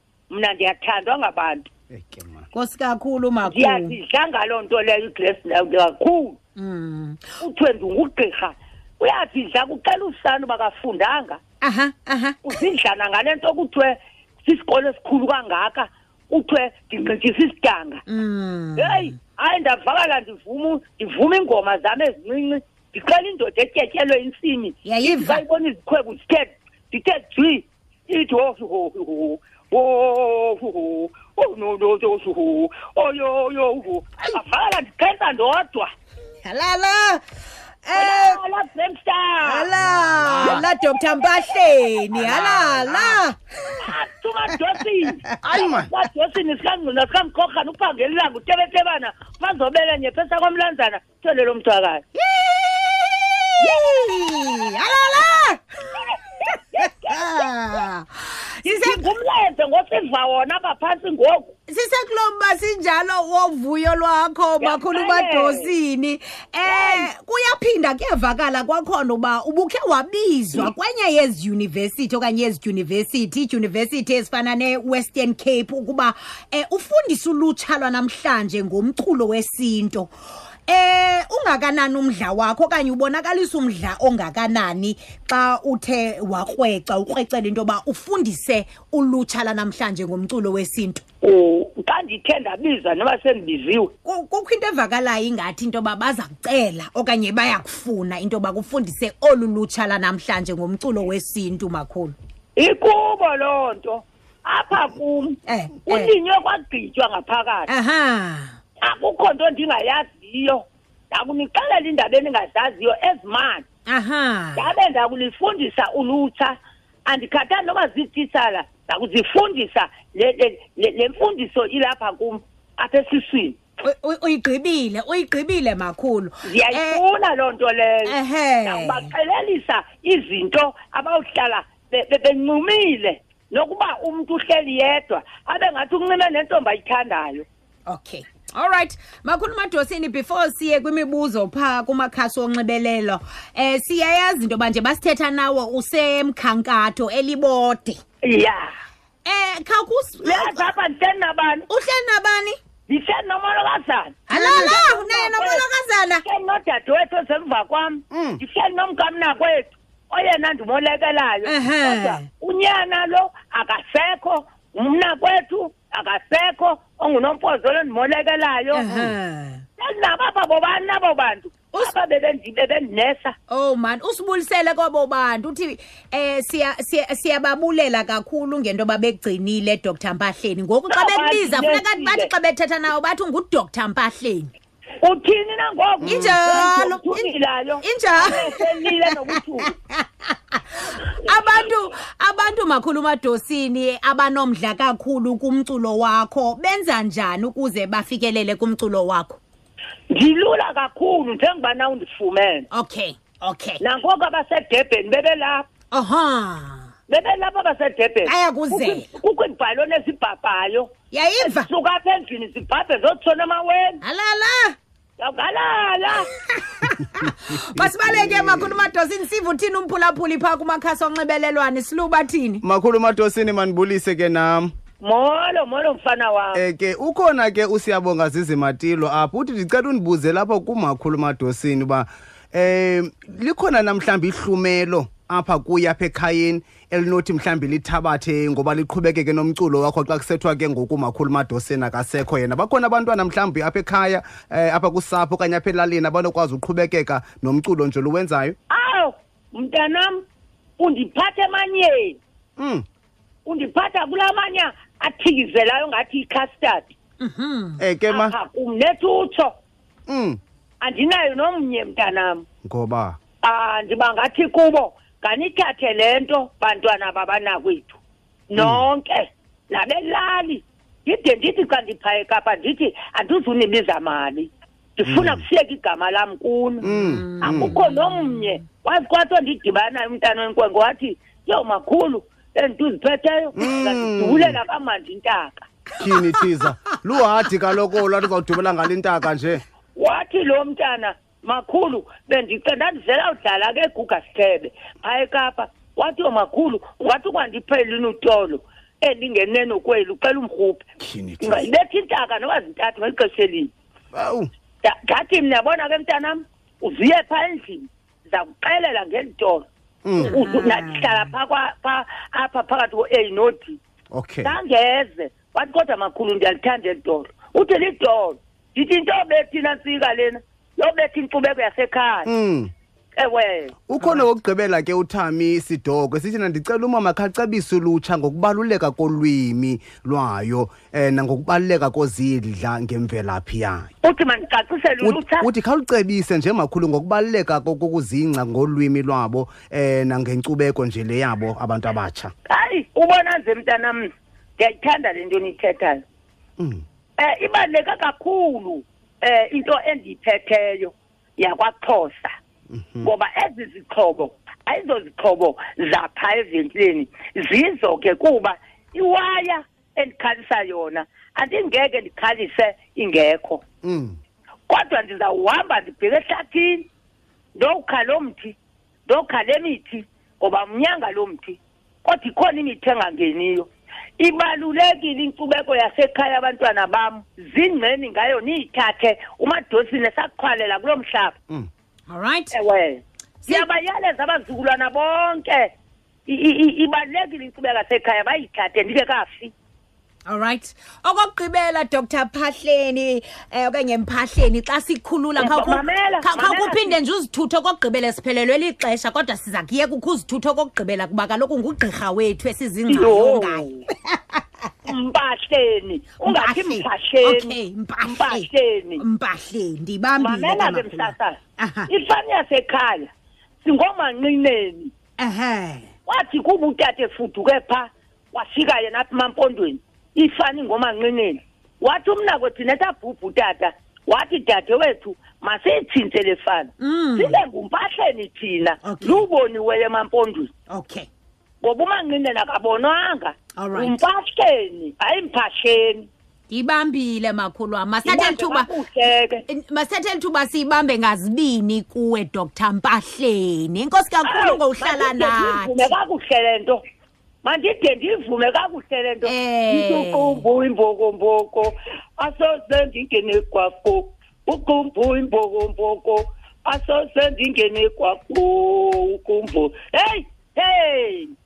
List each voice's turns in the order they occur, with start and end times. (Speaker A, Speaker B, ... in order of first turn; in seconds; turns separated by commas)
Speaker A: 0.3-1.7, Speaker B: 1.9-2.5, Speaker C: 2.5-4.0, Speaker A: 3.4-6.4, Speaker C: 6.6-7.2, Speaker A: 7.4-11.4, Speaker C: 11.6-12.4, Speaker A: 12.4-18.0, Speaker C: 18.1-19.1, Speaker A: 18.8-35.9, Speaker C: 24.9-25.4, Speaker C: 36.5-37.2, Speaker C: 37.8-38.4, Speaker A: 37.9-39.7, Speaker C: 39.4-43.8, Speaker B: 39.8-40.6, Speaker A: 40.4-42.2, Speaker B: 42.2-43.2, Speaker A: 43.8-52.0, Speaker B: 45.4-45.9, Speaker C: 52.1-55.8, Speaker A: 53.6-57.9, Speaker C: 56.5-59.1, Speaker A: 58.6-61.5, Speaker C: 61.7-80.1, Speaker A: 64.6-65.7, Speaker A: 66.7-67.1, Speaker C: 80.7-91.0, Speaker A: 91.2-93.9, Speaker C: 94.0-102.2, Speaker A: 102.6-107.7, Speaker C: 105.5-106.1, Speaker C: 107.7-108.5, Speaker A: 108.8-113.7, Speaker C: 113.9-114.7, Speaker A: 114.6-123.6, Speaker C: 123.8-127.0, Speaker A: 126.5-137.5, Speaker C: 128.1-129.1, Speaker C: 137.9-148.0, Speaker A: 148.2-148.7, Speaker C: 149.2-150.7, Speaker A: 150.2-151.7, Speaker C: 151.7-152.6, Speaker A: 152.9-155.6, Speaker C: 154.3-156.2, Speaker A: 156.2-168.8, Speaker B: 158.1-158.4, Speaker C: 161.4-162.3, Speaker C: 168.7-169.6, Speaker A: 169.8-173.3, Speaker C: 173.5-184.5, Speaker A: 180.9-182.3, Speaker A: 185.0-189.8, Speaker B: 186.0-186.4, Speaker C: 186.1-189.3, Speaker C: 189.9-199.4, Speaker A: 200.1-202.7, Speaker C: 202.7-203.8, Speaker A: 203.8-205.7, Speaker C: 205.9-206.9, Speaker A: 207.1-214.0, Speaker C: 208.2-209.1, Speaker C: 211.1-211.7, Speaker C: 214.0-214.8, Speaker A: 215.2-216.3, Speaker C: 216.2-222.6, Speaker B: 217.2-218.8, Speaker B: 222.6-224.7, Speaker A: 225.0-226.6, Speaker B: 226.6-248.6, Speaker A: 248.7-250.2, Speaker A: 250.8-252.2, Speaker B: 252.6-252.8, Speaker A: 253.4-256.9, Speaker C: 257.2-257.8, Speaker B: 257.8-258.4, Speaker A: 258.1-259.5, Speaker B: 260.1-260.4, Speaker A: 260.8-262.5, Speaker B: 262.6-263.2, Speaker A: 263.4-268.0, Speaker A: 268.5-276.9, Speaker B: 268.6-268.9, Speaker B: 275.1-275.4, Speaker B: 276.8-277.8, Speaker C: 276.8-278.6, Speaker A: 277.4-285.7, Speaker B: 283.6-284.6, Speaker B: 286.0-289.6, Speaker C: 286.1-286.7, Speaker A: 289.9-300.8, Speaker B: 301.0-301.7, Speaker A: 301.4-303.7, Speaker B: 304.1-304.5, Speaker A: 304.8-309.7, Speaker B: 310.1-310.4, Speaker A: 310.2-313.8, Speaker C: 310.2-311.2, Speaker B: 314.1-314.5, Speaker A: 314.4-322.3, Speaker B: 322.3-322.7, Speaker A: 323.2-323.7, Speaker B: 323.9-333.9, Speaker C: 324.0-324.3, Speaker A: 334.0-335.5, Speaker B: 335.0-342.3, Speaker A: 342.5-344.0, Speaker A: 344.6-346.0, Speaker B: 346.6-346.8, Speaker A: 347.2-352.3, Speaker B: 352.7-353.1, Speaker A: 353.0-363.6, Speaker B: 363.8-364.2, Speaker A: 364.7-366.9, Speaker A: 367.6-381.4, Speaker C: 382.1-382.5, Speaker A: 382.5-385.7, Speaker C: 383.4-383.7, Speaker A: 386.3-389.5, Speaker C: 390.3-404.7, Speaker A: 395.4-397.0, Speaker A: 402.9-403.8, Speaker A: 404.9-409.0, Speaker C: 406.2-411.9, Speaker A: 410.2-413.1, Speaker A: 413.6-414.9, Speaker C: 415.2-415.9, Speaker A: 416.1-430.5, Speaker C: 426.8-427.4, Speaker C: 428.8-429.3, Speaker C: 430.7-431.1, Speaker A: 431.6-436.1, Speaker C: 433.6-434.0, Speaker C: 436.5-438.7, Speaker A: 438.0-439.4, Speaker C: 439.5-445.9, Speaker A: 444.2-446.8, Speaker A: 447.4-461.3, Speaker C: 449.2-450.4